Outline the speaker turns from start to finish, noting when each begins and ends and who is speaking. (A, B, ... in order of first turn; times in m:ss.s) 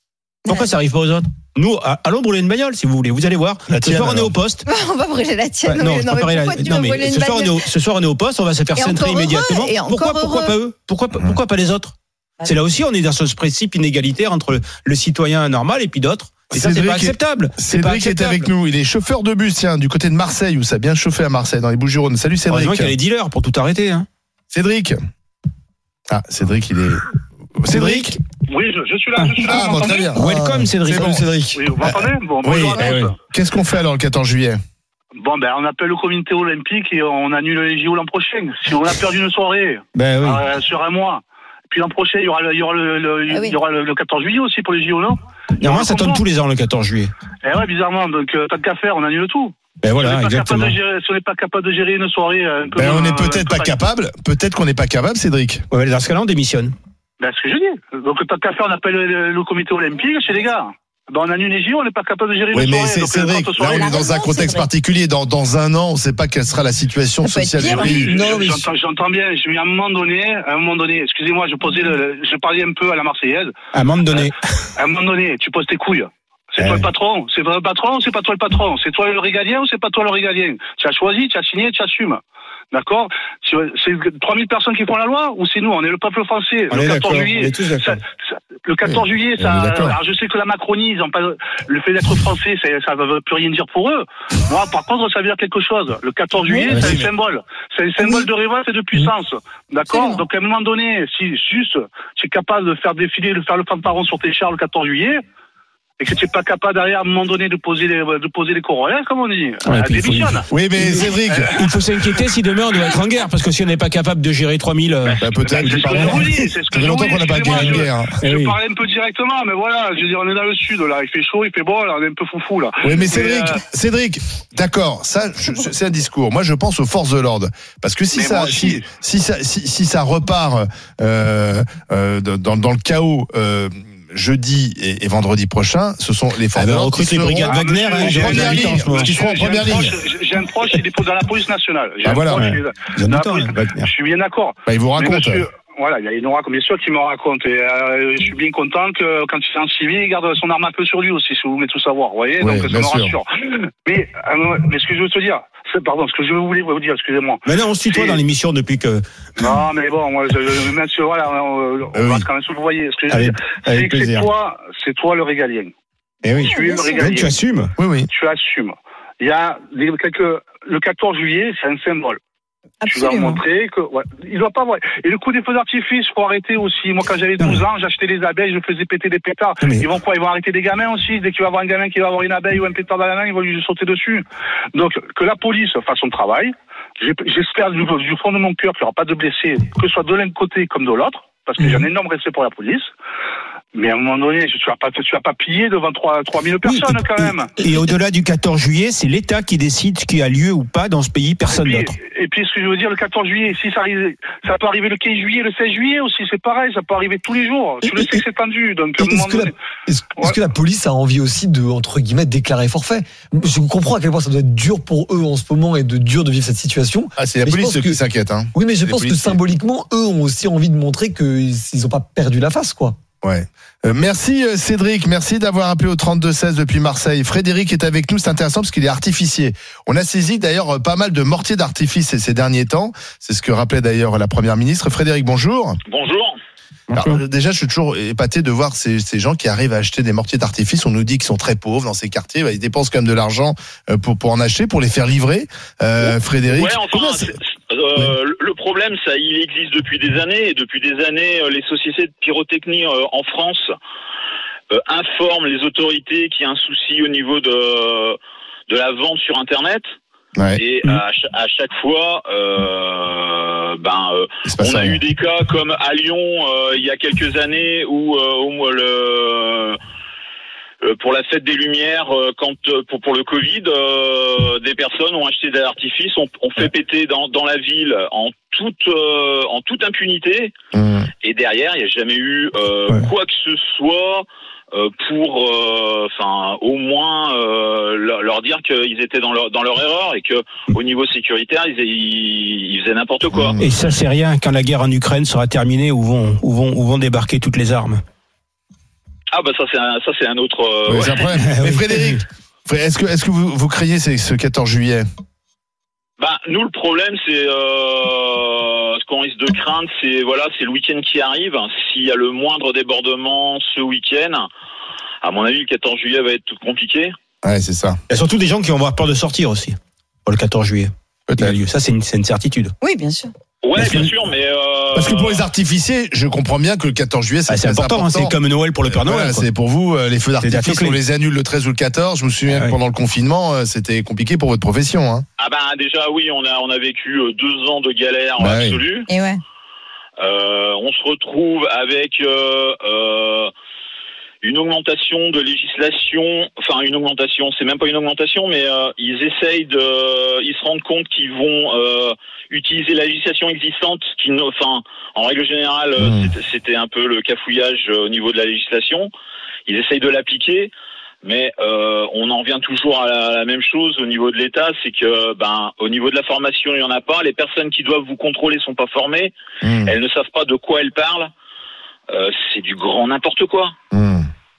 0:00.5-0:00.7 A
0:00.5-0:04.6 B
0:03.7-0:04.3 C
0:04.6-0:07.7 A
0:05.6-0:18.5 B
0:08.8-0:10.6 A
0:16.5-0:23.0 C
0:22.5-0:24.1 B
0:24.5-0:25.0 C
0:26.1-0:28.2 C
0:27.7-0:28.2 B
0:28.5-0:30.1 D
0:29.4-0:30.3 C
0:30.1-0:31.8 E
0:30.1-0:31.3 B
0:30.9-0:31.3 C
0:31.6-0:33.2 D
0:31.8-0:34.6 C
0:35.2-0:46.2 D
0:39.9-0:40.4 B
0:43.3-0:43.6 A
0:45.6-0:47.1 B
0:47.4-0:53.8 D
0:49.8-0:50.8 B
0:52.8-0:55.6 C
0:55.7-0:56.7 B
0:57.2-1:03.8 D
1:02.5-1:08.2 C
1:03.6-1:04.7 A
1:07.2-1:08.0 A
1:07.6-1:13.5 D
1:08.0-1:08.7 E
1:13.7-1:14.3 B
1:14.8-1:22.2 D
1:16.6-1:16.9 B
1:22.7-1:28.0 D
1:26.7-1:28.0 B
1:28.6-1:45.2 D
1:28.8-1:30.0 C
1:36.5-1:37.1 B
1:36.7-1:37.1 C
1:39.9-1:40.2 A
1:46.0-1:50.4 D
1:49.6-1:56.2 B
1:50.5-1:51.5 C
1:55.2-1:58.2 C
1:55.4-2:03.6 D
1:57.5-1:58.6 B
2:02.8-2:20.0 C
2:08.1-2:08.7 D
2:16.5-2:19.2 B
2:17.4-2:38.2 D
2:22.0-2:22.5 C
2:22.3-2:23.9 B
2:24.7-2:25.5 C
2:32.4-2:33.2 C
2:37.4-2:39.5 B
2:39.4-2:45.7 D
2:41.9-2:42.3 C
2:43.1-2:44.3 B
2:46.2-2:47.7 B
2:46.4-2:47.3 A
2:46.4-2:47.3 D
2:47.8-2:48.1 C
2:48.1-2:52.2 D
2:52.8-2:53.4 A
2:52.9-3:12.9 D
2:59.6-2:59.9 B
3:13.7-3:17.5 D
3:16.6-3:21.9 B
3:21.4-3:29.5 D
3:27.8-3:28.2 E
3:29.0-3:38.0 E
3:37.2-3:39.4 C
3:38.5-3:43.0 E
3:43.2-3:55.8 C
3:55.9-3:56.4 F
3:56.9-3:57.2 B
3:56.9-4:07.3 C
4:06.0-4:13.7 F
4:14.7-4:18.2 F
4:18.7-4:19.8 F
4:20.4-4:20.6 C
4:20.6-4:29.8 F
4:24.5-4:25.0 C
4:30.8-4:40.5 F
4:40.7-4:41.1 C
4:41.2-4:53.6 F
4:53.3-4:53.8 C
4:53.6-4:58.0 B
4:59.3-5:01.4 F
5:00.9-5:05.0 C
5:01.3-5:02.2 B
5:06.2-5:14.4 F
5:15.2-5:17.1 F
5:17.4-5:18.0 C
5:18.1-5:22.7 B
5:21.3-5:21.6 C
5:22.8-5:23.3 A
5:23.6-5:25.5 F
5:23.8-5:24.1 B
5:24.9-5:35.2 C
5:27.5-5:29.5 B
5:30.4-5:31.0 B
5:32.5-5:32.8 B
5:35.4-5:39.1 F
5:38.4-5:38.8 C
5:39.1-5:39.4 A
5:40.2-5:43.5 F
5:44.4-5:59.1 F
5:56.0-5:56.3 C
5:59.7-6:00.7 F
6:01.2-6:09.3 F
6:09.6-6:09.9 C
6:09.8-6:11.3 F
6:12.1-6:13.7 F
6:13.9-6:14.3 C